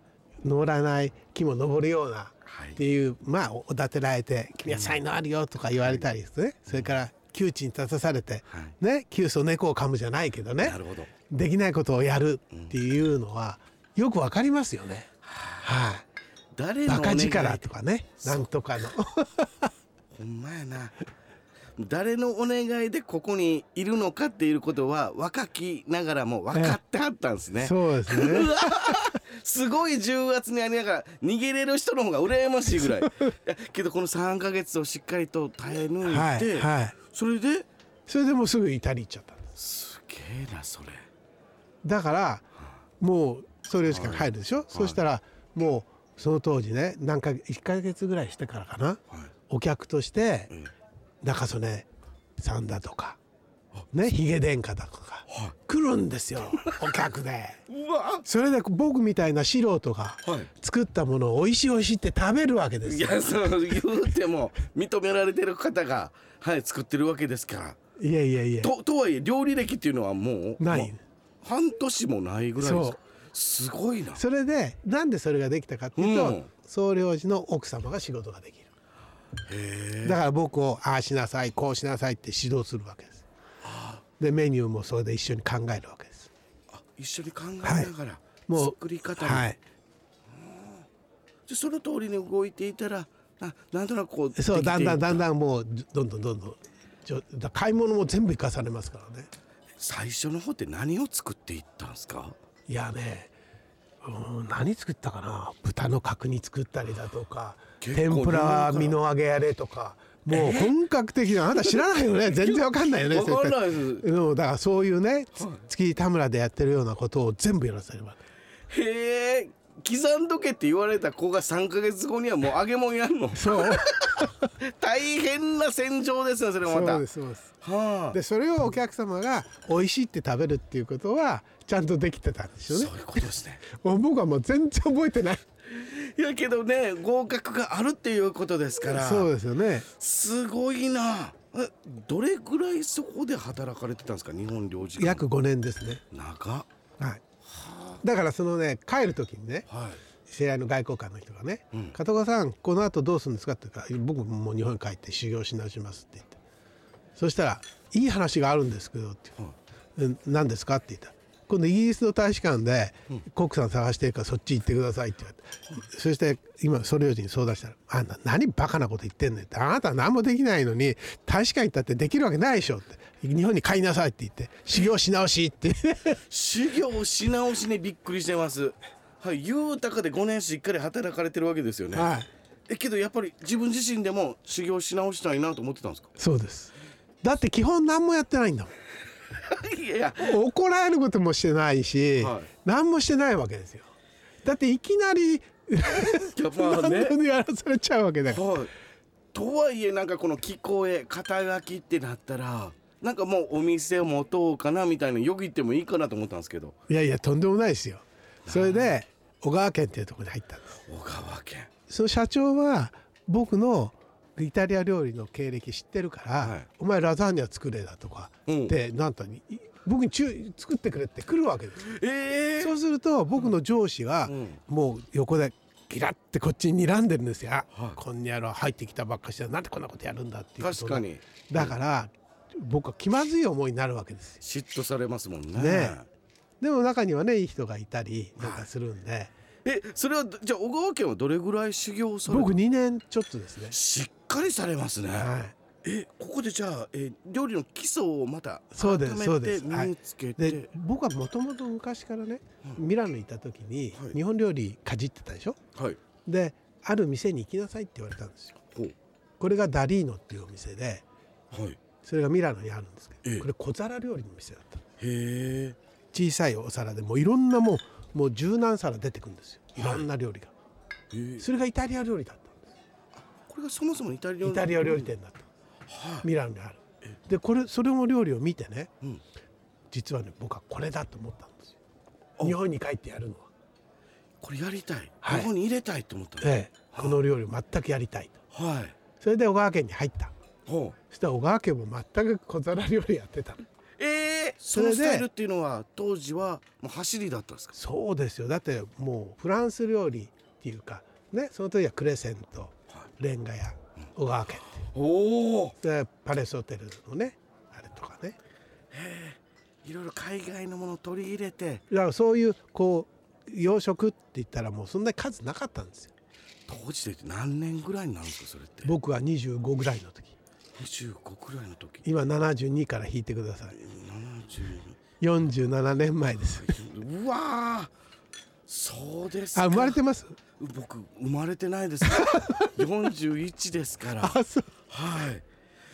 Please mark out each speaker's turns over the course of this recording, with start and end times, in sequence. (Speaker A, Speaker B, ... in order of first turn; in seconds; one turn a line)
Speaker A: 0.4-10.8
Speaker B: 2.5-2.8
Speaker B: 4.7-5.0
Speaker B: 5.8-6.1
Speaker B: 6.7-7.0
Speaker B: 8.5-8.7
Speaker B: 10.6-11.1
Speaker A: 11.3-15.1
Speaker B: 15.2-15.7
Speaker A: 15.6-16.1
Speaker B: 16.5-17.6
Speaker A: 16.9-19.7
Speaker B: 20.1-21.0
Speaker B: 21.8-37.7
Speaker A: 26.5-26.8
Speaker A: 27.5-28.9
Speaker A: 36.0-37.0
Speaker A: 38.1-39.5
Speaker B: 39.5-41.1
Speaker A: 41.8-42.4
Speaker A: 43.0-50.5
Speaker B: 43.9-45.0
Speaker A: 51.2-51.9
Speaker A: 52.4-53.2
Speaker A: 53.9-57.6
Speaker B: 55.3-55.5
Speaker B: 57.7-58.2
Speaker A: 58.2-63.9
Speaker B: 60.2-60.5
Speaker B: 62.8-67.8
Speaker A: 68.0-68.7
Speaker B: 68.6-74.2
Speaker A: 70.6-71.0
Speaker A: 72.6-73.0
Speaker A: 74.1-78.7
Speaker B: 76.0-76.5
Speaker B: 79.5-80.2
Speaker A: 80.0-83.2
Speaker B: 83.6-84.0
Speaker A: 84.2-86.3
Speaker B: 86.7-89.5
Speaker A: 87.6-87.9
Speaker A: 88.5-89.6
Speaker B: 90.3-90.8
Speaker B: 91.5-95.3
Speaker A: 94.3-99.3
Speaker B: 99.8-102.4
Speaker A: 102.7-103.3
Speaker A: 104.0-118.2
Speaker B: 107.8-109.0
Speaker B: 110.3-110.8
Speaker B: 111.5-114.1
Speaker B: 115.3-115.6
Speaker B: 118.7-127.0
Speaker A: 123.3-124.4
Speaker A: 126.6-127.5
Speaker B: 127.6-128.2
Speaker A: 128.1-135.4
Speaker B: 132.7-133.6
Speaker B: 135.7-139.3
Speaker A: 138.8-139.9
Speaker B: 139.9-145.2
Speaker A: 144.9-146.0
Speaker B: 146.1-146.7
Speaker B: 147.4-148.0
Speaker A: 148.0-149.7
Speaker B: 149.7-150.0
Speaker A: 150.2-156.4
Speaker A: 157.2-159.4
Speaker A: 159.9-176.2
Speaker B: 176.3-182.1
Speaker A: 181.9-182.3
Speaker B: 182.7-186.1
Speaker A: 186.2-188.7
Speaker B: 189.4-190.4
Speaker A: 190.2-193.9
Speaker B: 192.2-192.5
Speaker A: 194.4-198.6
Speaker B: 196.2-197.2
Speaker B: 198.3-198.7
Speaker B: 199.3-206.8
Speaker A: 206.9-210.7
Speaker B: 208.4-209.0
Speaker B: 210.8-211.7
Speaker A: 211.9-221.9
Speaker B: 216.4-216.7
Speaker B: 218.5-218.8
Speaker B: 221.8-222.8
Speaker A: 222.6-234.4
Speaker B: 224.2-224.6
Speaker B: 227.7-228.0
Speaker B: 230.6-231.8
Speaker B: 234.4-236.1
Speaker A: 235.5-236.0
Speaker A: 236.6-239.3
Speaker B: 238.4-238.7
Speaker B: 239.6-242.6
Speaker A: 242.2-243.8
Speaker B: 243.7-245.3
Speaker A: 245.2-245.5
Speaker B: 245.8-250.7
Speaker A: 248.7-255.6
Speaker B: 255.8-256.0
Speaker A: 256.2-258.6
Speaker A: 259.4-261.0
Speaker B: 261.5-261.8
Speaker A: 262.0-264.8
Speaker B: 265.0-265.8
Speaker A: 266.1-270.5
Speaker B: 269.8-270.1
Speaker B: 271.1-271.4
Speaker A: 271.4-272.6
Speaker B: 273.1-275.1
Speaker A: 274.4-275.4
Speaker B: 275.9-276.3
Speaker A: 276.2-278.9
Speaker A: 279.9-281.7
Speaker A: 282.4-283.5
Speaker B: 284.4-287.2
Speaker A: 285.2-285.5
Speaker A: 286.4-288.4
Speaker B: 288.5-288.9
Speaker A: 289.2-290.3
Speaker B: 290.6-291.0
Speaker A: 291.1-293.6
Speaker B: 294.0-297.8
Speaker A: 294.7-295.3
Speaker A: 297.7-304.9
Speaker B: 304.9-305.8
Speaker A: 305.8-308.4
Speaker B: 308.9-311.8
Speaker A: 311.9-316.1
Speaker B: 316.7-318.9
Speaker A: 318.8-320.3
Speaker B: 320.7-322.1
Speaker A: 322.0-323.8
Speaker B: 323.7-325.0
Speaker A: 325.2-326.8
Speaker B: 326.4-327.9
Speaker B: 328.7-330.0
Speaker A: 329.5-330.4
Speaker B: 330.6-335.4
Speaker A: 332.1-332.7
Speaker A: 334.2-334.7